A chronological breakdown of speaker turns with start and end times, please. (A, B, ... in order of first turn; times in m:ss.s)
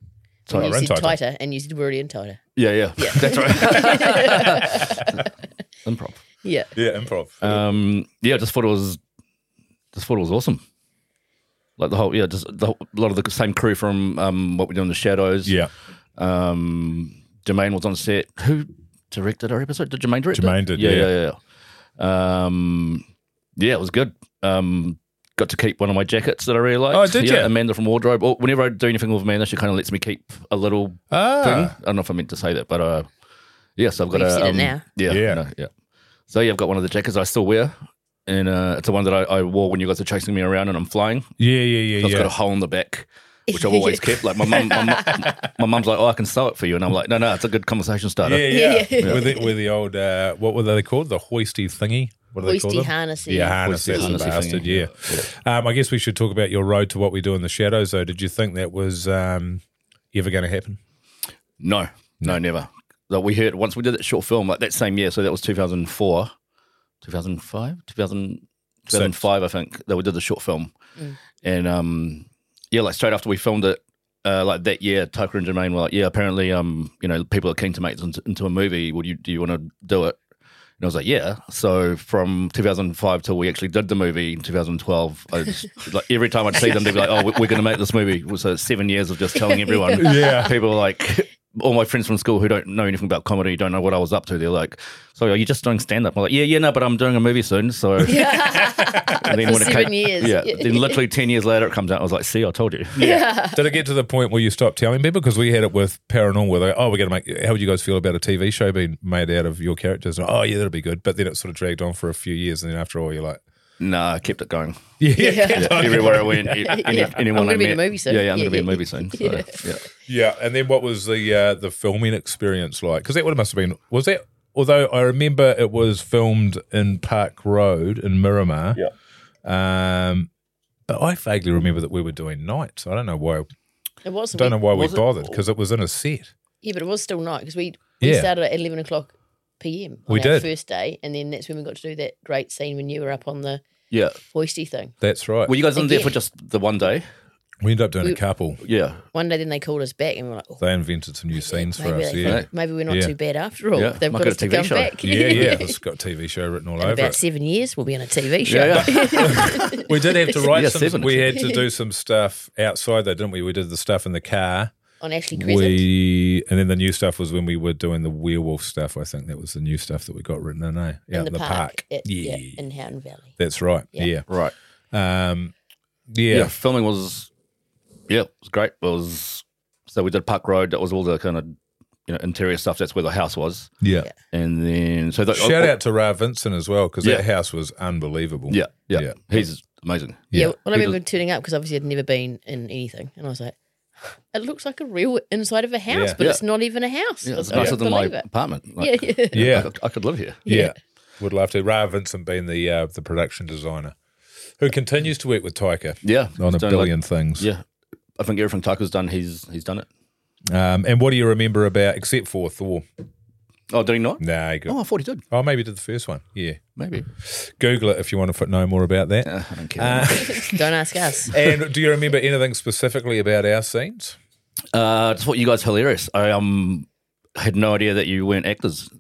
0:00.5-0:02.4 A
0:00.5-0:01.2 B
0:02.6-0:05.0 C
0:03.0-0:05.1 A
0:05.8-0:06.2 C
0:06.4-0:06.7 A
0:06.8-0:07.6 B
0:07.4-0:09.0 C
0:09.9-0:10.6 C
0:11.8-0:15.6 C
0:15.4-0:15.7 B
0:16.2-0:21.4 C
0:20.3-0:21.1 B
0:22.0-0:23.0 C
0:23.6-0:33.1 C
0:26.9-0:27.5 B
0:31.1-0:31.8 B
0:33.8-0:35.7 C
0:34.1-0:34.8 A
0:35.1-0:35.4 B
0:36.3-0:37.8 C
0:38.3-0:41.3 C
0:41.4-0:42.3 B
0:42.0-0:49.2 C
0:43.5-0:45.3 A
0:48.2-0:59.6 B
0:48.5-0:49.5 A
0:52.4-0:54.3 A
0:53.6-0:55.3 C
1:00.1-1:00.8 B
1:01.6-1:06.3 C
1:07.0-1:10.7 C
1:08.9-1:09.2 B
1:11.4-1:20.2 C
1:20.8-1:38.4 C
1:26.6-1:27.0 A
1:29.4-1:30.5 A
1:30.0-1:30.6 B
1:38.0-1:41.0 A
1:38.6-1:39.3 B
1:39.2-1:43.0 C
1:43.0-1:43.6 A
1:43.0-1:53.4 B
1:53.8-1:54.8 C
1:55.0-1:57.0 B
1:55.2-1:59.5 A
1:55.5-1:59.8 C
2:00.1-2:08.8 B
2:09.4-2:10.3 B
2:10.9-2:13.5 B
2:14.0-2:14.6 A
2:14.4-2:16.3 B
2:14.7-2:15.4 C
2:16.6-2:23.6 A
2:18.0-2:18.3 B
2:20.1-2:20.5 B
2:23.9-2:24.2 C
2:24.2-2:25.0 A
2:25.0-2:25.6 B
2:25.5-2:27.0 C
2:25.8-2:26.2 A
2:27.6-2:28.6 B
2:28.6-2:29.0 C
2:29.1-2:30.6 A
2:30.6-2:33.1 B
2:31.5-2:35.7 A
2:32.2-2:32.5 C
2:33.8-2:35.5 C
2:35.0-2:37.2 B
2:36.8-2:39.9 A
2:38.4-2:39.5 C
2:38.8-2:44.7 B
2:40.5-2:41.4 C
2:45.0-2:45.8 A
2:45.4-2:52.6 B
2:51.1-2:53.4 A
2:53.4-2:54.3 B
2:54.9-2:55.5 B
2:56.1-2:56.5 B
2:56.3-2:57.3 C
2:58.1-3:01.6 C
3:02.1-3:05.8 C
3:03.8-3:04.1 B
3:05.3-3:09.4 B
3:08.5-3:11.0 C
3:10.3-3:13.6 A
3:14.3-3:18.2 A
3:15.9-3:16.2 B
3:17.2-3:20.4 C
3:18.8-3:19.5 A
3:19.3-3:19.7 B
3:20.4-3:24.0 B
3:20.5-3:20.7 A
3:24.6-3:27.5 B
3:26.0-3:27.6 C
3:28.2-3:29.9 C
3:30.5-3:32.8 B
3:33.7-3:35.2 C
3:34.2-3:34.8 B
3:35.3-3:36.6 B
3:36.8-3:37.1 C
3:37.2-3:40.6 B
3:39.3-3:40.4 C
3:40.1-3:41.3 A
3:41.3-3:44.2 B
3:44.7-3:48.9 C